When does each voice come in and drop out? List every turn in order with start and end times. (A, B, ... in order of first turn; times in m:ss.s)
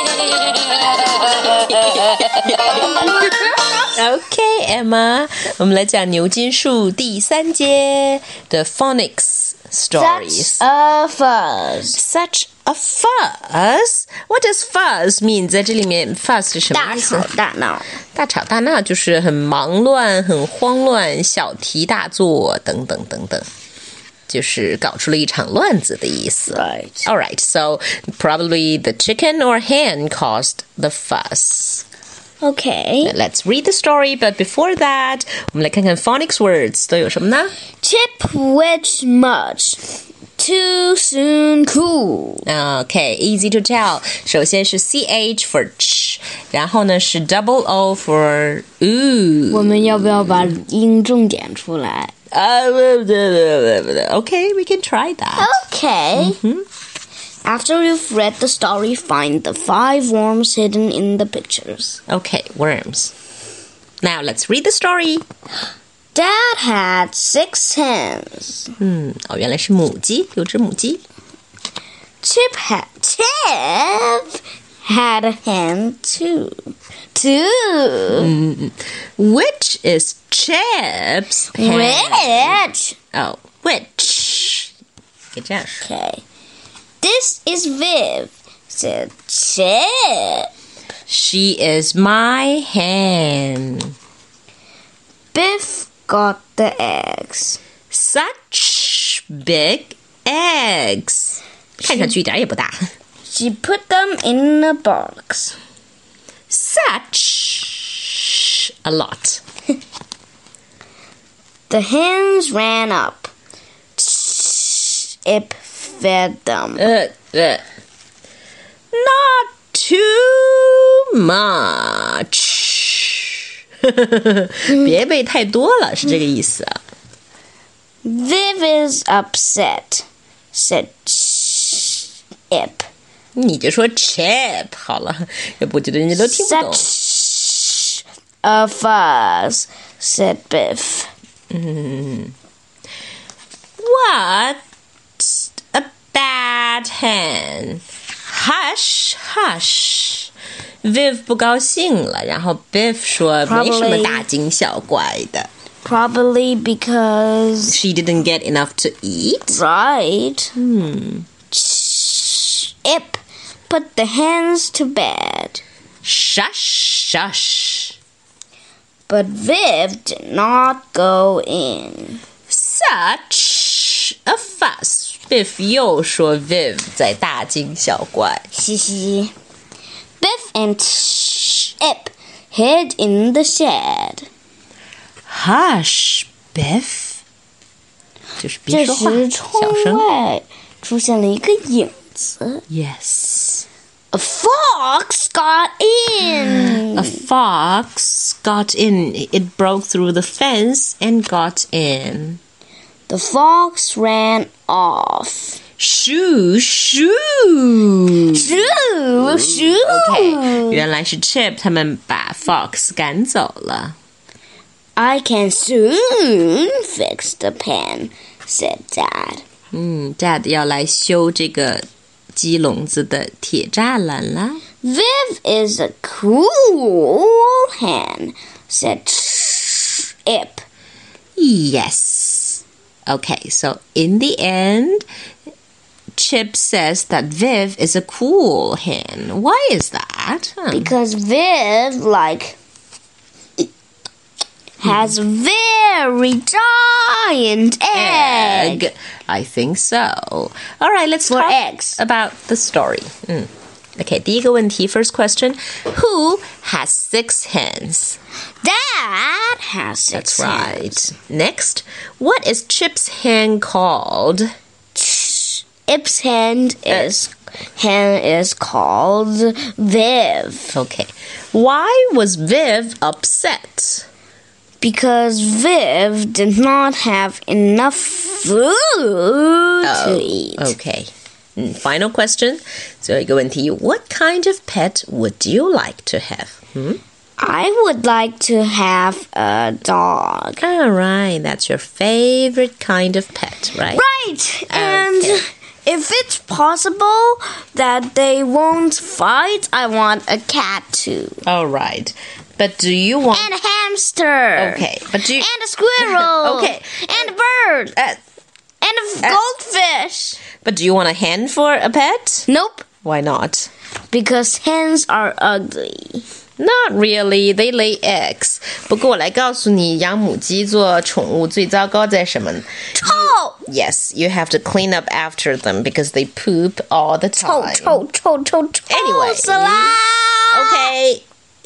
0:00.3-0:03.0 A
0:03.9-0:10.6 A
0:10.0-0:12.0 B
0:11.9-0:17.3 A
0:16.7-0:17.9 B
0:18.1-0:23.4 A
0:24.3-0:31.8 A
0:26.5-0:27.1 B
0:32.4-0:33.1 B
0:33.0-0:37.5 A
0:37.8-0:42.4 B
0:42.4-0:50.5 A
0:49.5-0:52.1 B
0:52.3-0:55.6 A
0:55.4-0:56.4 B
0:56.1-0:56.6 A
0:57.4-1:02.0 B
1:02.1-1:03.1 A
1:04.0-1:05.2 A
1:06.1-1:08.7 B
1:08.8-1:11.0 A
1:12.2-1:18.3 B
1:18.1-1:22.6 A
1:21.5-1:23.0 B
1:23.1-1:24.7 A
1:25.3-1:25.8 A
1:25.8-1:26.2 B
1:27.0-1:30.5 B
1:31.1-1:33.9 A
1:35.3-1:37.6 B
1:37.9-1:42.8 A
1:43.3-1:45.6 B
1:46.5-1:49.4 A
1:51.7-1:53.3 B
1:54.0-1:56.8 B
1:56.8-1:57.6 A
1:58.9-2:06.8 A
2:08.0-2:12.9 B
2:13.3-2:16.9 A
2:16.2-2:21.1 B
2:21.5-2:22.3 A
2:23.8-2:24.6 A
2:25.2-2:30.3 A
2:30.8-2:35.5 A
2:33.4-2:34.2 B
2:35.8-2:37.8 B
2:37.6-2:39.6 A
2:39.5-2:40.5 B
2:40.6-2:41.3 A
2:41.5-2:45.6 B
2:46.0-2:48.0 A
2:49.1-2:52.2 B
2:52.5-2:58.5 A
2:58.5-2:59.3 B
3:00.2-3:04.3 B
3:05.3-3:07.2 A
3:08.4-3:10.0 A
3:08.7-3:12.6 B
3:12.7-3:13.6 A
3:14.1-3:17.2 B
3:16.2-3:22.4 A
3:23.1-3:25.6 B
3:25.8-3:28.6 A
3:28.3-3:30.8 B
3:29.3-3:34.0 A
3:35.0-3:39.4 B
3:39.7-3:44.6 A
3:44.8-3:50.6 B
3:51.4-3:55.0 A
3:56.2-4:00.9 A
4:00.7-4:02.6 B
4:04.8-4:08.9 B
4:04.8-4:05.1 A
4:07.9-4:18.2 A
4:11.3-4:12.0 B
4:18.6-4:21.0 B
4:20.1-4:24.5 A
4:24.9-4:30.8 B
4:30.7-4:34.1 A
4:34.8-4:40.7 B
4:39.8-4:47.0 A
4:47.4-4:50.6 B
4:50.6-4:54.0 A
4:53.9-5:01.4 B
4:54.7-4:55.4 A
5:01.4-5:03.5 A
5:03.3-5:08.0 B
5:04.6-5:07.3 A
5:08.8-5:10.4 B
5:10.6-5:12.5 A
5:12.5-5:12.8 B
5:13.0-5:13.7 A
5:14.1-5:16.2 B
5:16.6-5:28.0 A
5:22.9-5:23.6 B
5:27.4-5:30.9 B
5:28.9-5:30.0 A
5:30.5-5:31.2 A